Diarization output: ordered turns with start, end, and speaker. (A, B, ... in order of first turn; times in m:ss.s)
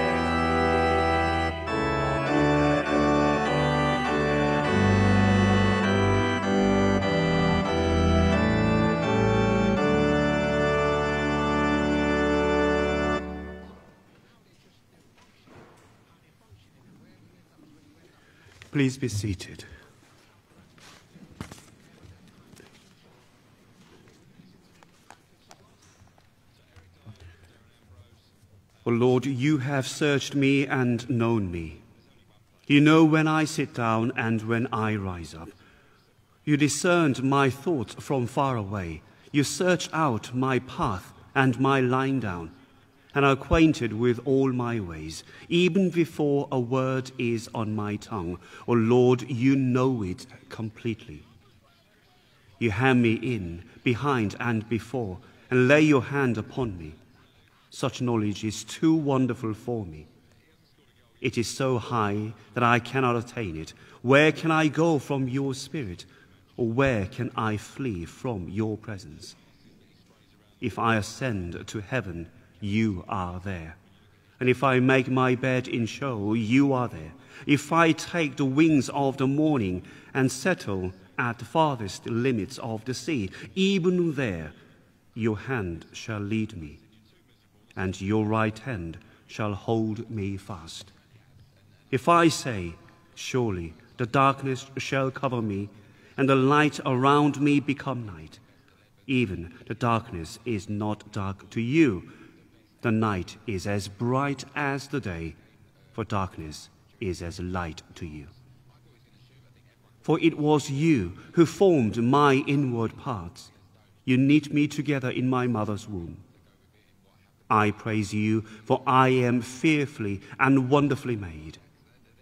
0:18.7-0:19.7 A
0:28.8-0:31.8 A
0:32.7-0:35.5 A
0:36.4-0:42.5 A
0:43.1-0:51.2 A
0:52.6-0:57.0 A
0:57.7-1:00.1 A
1:01.2-1:09.4 A
1:10.6-1:13.8 A
1:14.4-1:24.6 A
1:25.1-1:26.8 A
1:27.8-1:30.9 A
1:31.9-1:38.4 A
1:39.1-1:42.1 A
1:42.8-1:45.4 A
1:45.9-1:48.3 A
1:50.0-1:53.5 A
1:54.0-1:56.2 A
1:57.5-2:01.6 A